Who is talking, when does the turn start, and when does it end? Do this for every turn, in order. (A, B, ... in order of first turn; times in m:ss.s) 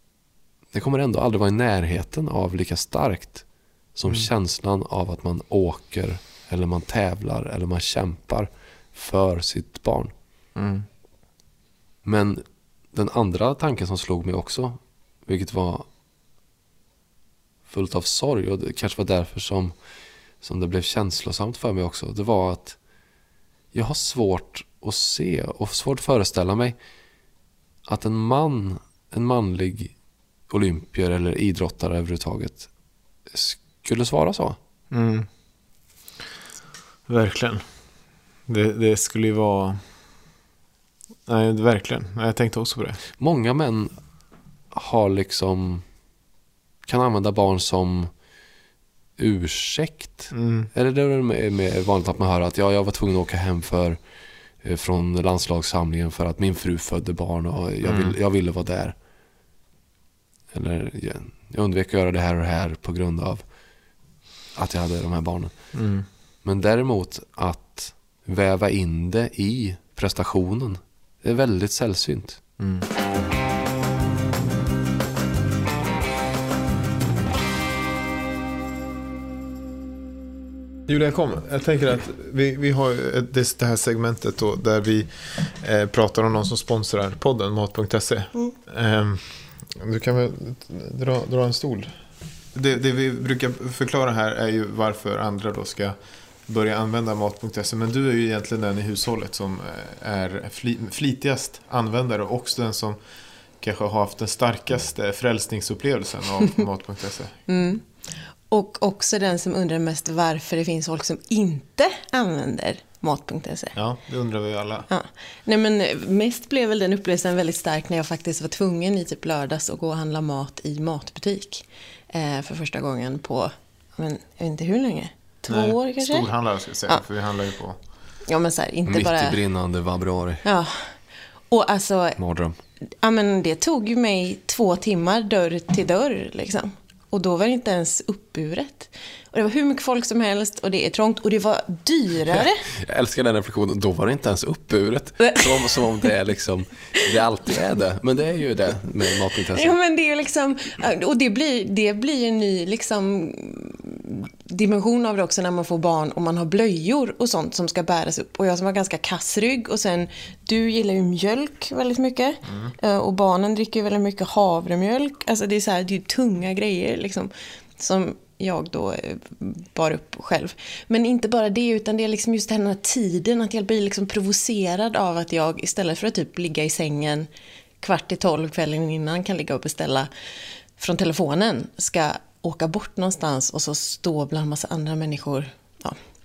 0:00.7-0:10.1 A
0:10.6-0:10.9 B
0:12.0-0:15.9 A
0:17.7-0:19.7 A
0:20.4-0:22.8 A
0:23.7-0:26.8 A
0:27.9-0:29.9 A
0:30.5-0:32.7 A
0:33.3-0:34.6 A
0:34.9-0:35.3 B
0:37.1-0:37.6 B
0:38.5-0:39.8 B
0:41.3-0:43.0 B
0:43.2-0:43.9 A
0:44.7-0:45.8 A
0:46.9-0:48.1 A
0:49.2-0:54.0 A
0:50.3-0:50.7 B
0:54.6-0:59.0 A
0:57.8-0:58.2 B
1:00.5-1:03.4 A
1:04.6-1:05.5 A
1:05.7-1:06.1 B
1:06.4-1:12.4 A
1:12.6-1:12.9 B
1:20.9-1:32.0 B
1:32.5-1:36.0 B
1:36.5-1:43.0 B
1:43.6-1:47.4 B
1:47.5-1:47.8 C
1:48.5-1:53.8 C
1:53.8-1:54.9 B
1:54.9-2:06.3 C
2:05.5-2:07.8 B
2:08.3-2:09.4 C
2:08.9-2:10.4 A
2:10.4-2:10.8 C
2:11.5-2:12.2 C
2:12.2-2:12.6 A
2:13.0-2:22.6 C
2:22.2-2:29.8 A
2:29.5-2:57.3 C
2:42.5-2:42.8 B
2:57.8-3:00.1 C
3:00.8-3:06.0 C